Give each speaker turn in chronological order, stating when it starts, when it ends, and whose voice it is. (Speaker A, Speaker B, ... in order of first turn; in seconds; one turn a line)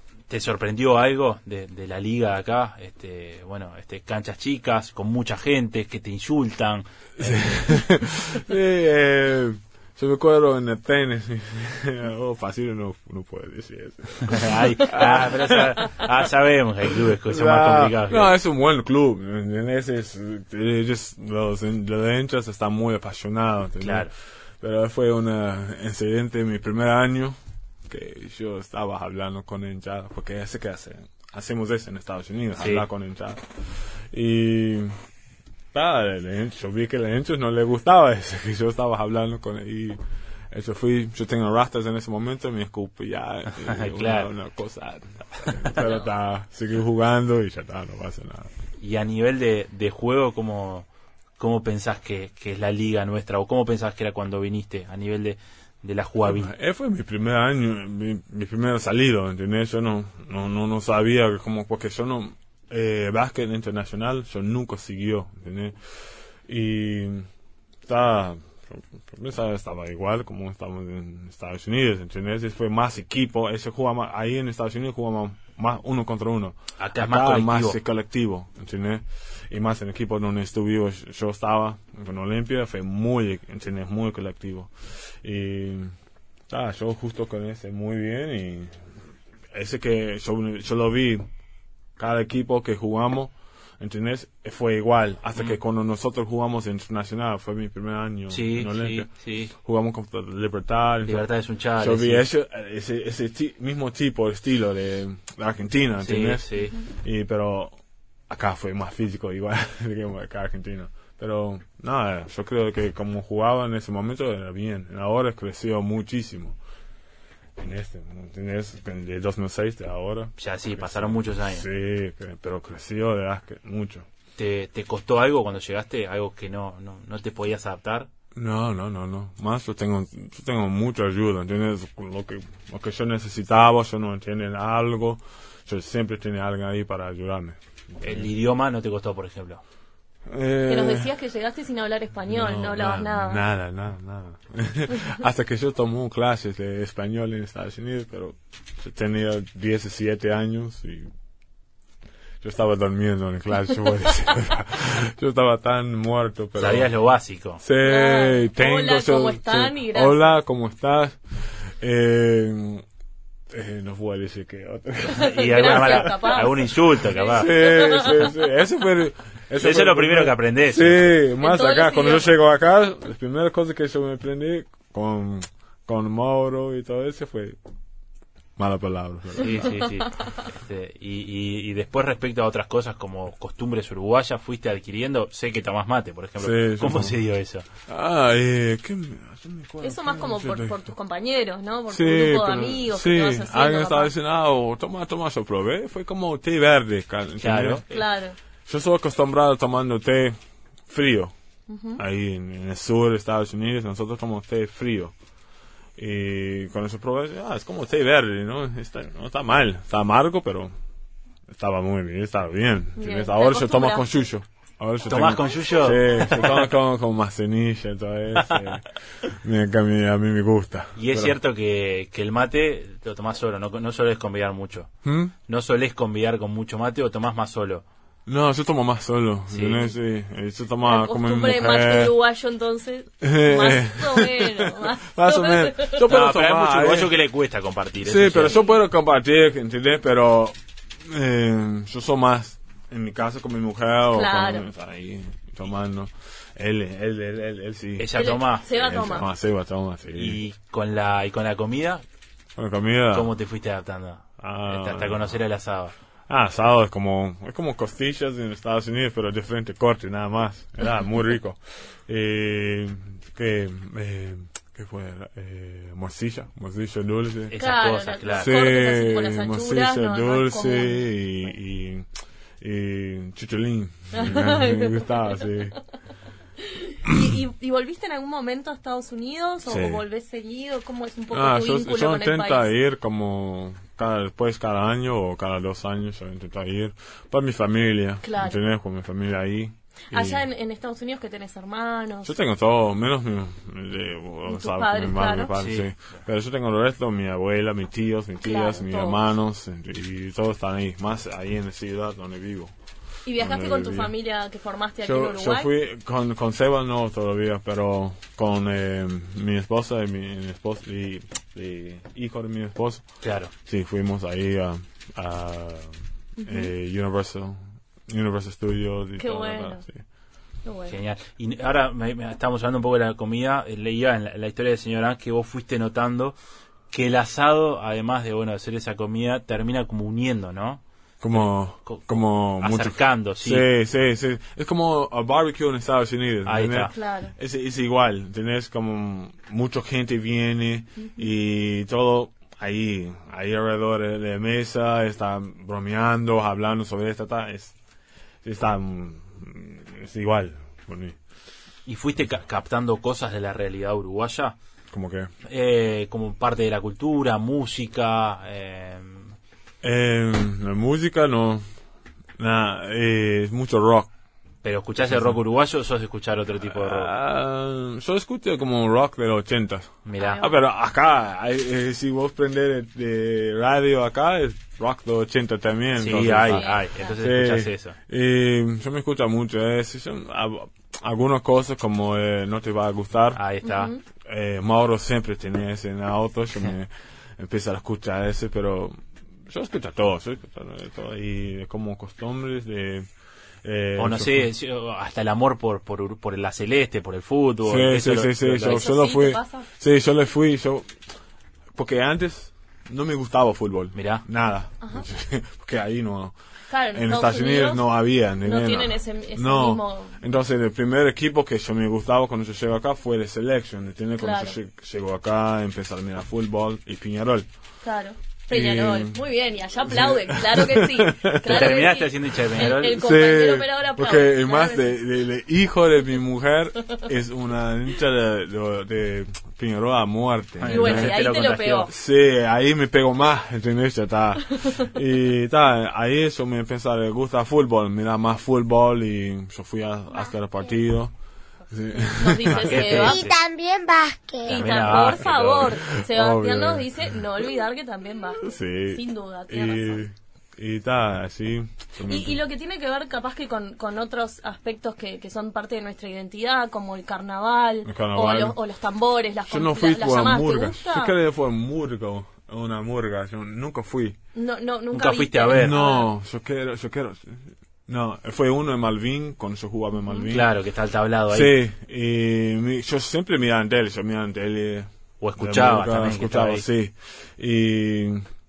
Speaker A: 0.3-7.8
Speaker B: 7.2-16.0
Speaker A: 14.2-18.3
Speaker B: 17.2-34.9
Speaker A: 23.8-24.1
Speaker A: 32.6-32.9
Speaker B: 35.7-40.0
Speaker B: 40.5-48.5
Speaker A: 43.5-44.3
Speaker A: 45.4-45.7
Speaker A: 48.8-50.9
Speaker A: 51.4-56.5
Speaker B: 56.2-65.8
Speaker B: 66.5-67.3
Speaker B: 67.8-85.9
Speaker A: 76.8-77.8
Speaker B: 86.5-88.9
Speaker B: 89.5-91.2
Speaker B: 92.0-101.3
Speaker A: 98.3-99.5
Speaker A: 101.0-102.2
Speaker B: 101.8-107.7
Speaker A: 106.0-106.8
Speaker C: 106.6-106.8
Speaker B: 108.3-116.6
Speaker B: 117.6-124.0
Speaker A: 120.4-121.6
Speaker A: 124.4-128.1
Speaker B: 128.3-138.3
Speaker A: 138.0-139.6
Speaker B: 140.3-141.1
Speaker C: 140.7-143.4
Speaker B: 142.3-151.1
Speaker B: 152.4-156.9
Speaker A: 156.6-157.6
Speaker B: 157.6-162.8
Speaker C: 157.8-160.3
Speaker B: 163.5-166.3
Speaker C: 165.1-168.3
Speaker A: 165.2-167.6
Speaker B: 167.3-177.6
Speaker A: 169.6-171.1
Speaker C: 171.4-172.3
Speaker B: 178.6-179.7
Speaker A: 179.4-187.7
Speaker B: 186.4-187.2
Speaker B: 187.9-190.8
Speaker C: 189.8-194.1
Speaker B: 191.9-198.0
Speaker A: 197.4-197.8
Speaker C: 197.9-198.3
Speaker B: 198.7-200.4
Speaker B: 200.9-201.3
Speaker C: 201.7-202.0
Speaker B: 201.9-205.1
Speaker B: 206.0-210.7
Speaker B: 211.5-221.4
Speaker C: 213.0-214.1
Speaker A: 215.1-216.7
Speaker A: 220.9-224.9
Speaker B: 225.0-225.3
Speaker A: 225.5-227.8
Speaker B: 228.3-232.2
Speaker A: 229.5-229.8
Speaker C: 230.8-236.1
Speaker B: 233.2-237.1
Speaker A: 236.0-238.6
Speaker B: 238.0-250.4
Speaker C: 244.1-244.7
Speaker A: 248.0-248.7
Speaker C: 248.2-249.3
Speaker A: 250.1-252.0
Speaker B: 252.6-253.3
Speaker A: 253.1-255.9
Speaker B: 254.4-255.4
Speaker B: 256.3-267.5
Speaker A: 267.5-268.6
Speaker C: 267.6-271.1
Speaker B: 268.3-272.1
Speaker B: 272.6-275.8
Speaker C: 274.1-275.4
Speaker C: 276.6-282.7
Speaker B: 277.1-277.3
Speaker B: 279.6-280.0
Speaker B: 281.3-290.4
Speaker C: 288.2-288.6
Speaker C: 290.1-292.3
Speaker B: 292.2-302.7
Speaker C: 294.5-295.5
Speaker A: 295.6-295.9
Speaker C: 298.4-299.2
Speaker C: 303.2-305.7
Speaker B: 303.4-304.1
Speaker B: 305.0-313.0
Speaker A: 313.2-313.5
Speaker B: 313.6-320.0
Speaker C: 316.4-316.7
Speaker C: 319.2-319.8
Speaker C: 320.6-320.9
Speaker A: 320.9-326.4
Speaker A: 326.9-333.7
Speaker B: 331.2-347.7
Speaker A: 336.4-336.9
Speaker C: 336.9-337.3
Speaker C: 341.0-341.2
Speaker B: 348.4-351.2
Speaker A: 351.9-354.6
Speaker B: 354.9-355.3
Speaker A: 355.4-359.3
Speaker B: 359.8-361.6
Speaker B: 362.4-364.1
Speaker A: 364.6-367.1
Speaker B: 365.0-365.4
Speaker B: 366.6-383.4
Speaker A: 370.0-370.4
Speaker C: 370.2-370.5
Speaker A: 376.0-377.9
Speaker C: 376.4-377.2
Speaker A: 383.3-383.9
Speaker C: 383.6-384.0
Speaker B: 384.2-393.1
Speaker B: 393.6-394.5
Speaker A: 394.0-398.9
Speaker B: 397.6-400.9
Speaker C: 398.6-399.7
Speaker B: 401.7-406.3
Speaker A: 403.9-404.2
Speaker C: 406.7-407.8
Speaker B: 406.9-417.5
Speaker C: 408.4-410.2
Speaker C: 414.2-414.6
Speaker C: 417.8-425.0
Speaker B: 418.5-419.2
Speaker B: 419.8-421.9
Speaker A: 421.4-423.0
Speaker B: 422.6-431.3
Speaker A: 430.6-431.9
Speaker C: 430.6-431.9
Speaker B: 431.9-441.1
Speaker B: 441.7-443.0
Speaker C: 441.9-443.3
Speaker A: 442.5-443.4
Speaker D: 442.7-444.7
Speaker C: 444.4-450.0
Speaker A: 444.4-445.7
Speaker B: 444.7-447.4
Speaker B: 448.4-452.4
Speaker C: 452.1-461.1
Speaker B: 457.8-458.6
Speaker B: 459.5-464.2
Speaker C: 464.3-466.1
Speaker A: 464.9-465.8
Speaker B: 465.5-470.5
Speaker A: 470.3-471.6
Speaker B: 471.3-478.2
Speaker A: 475.2-476.6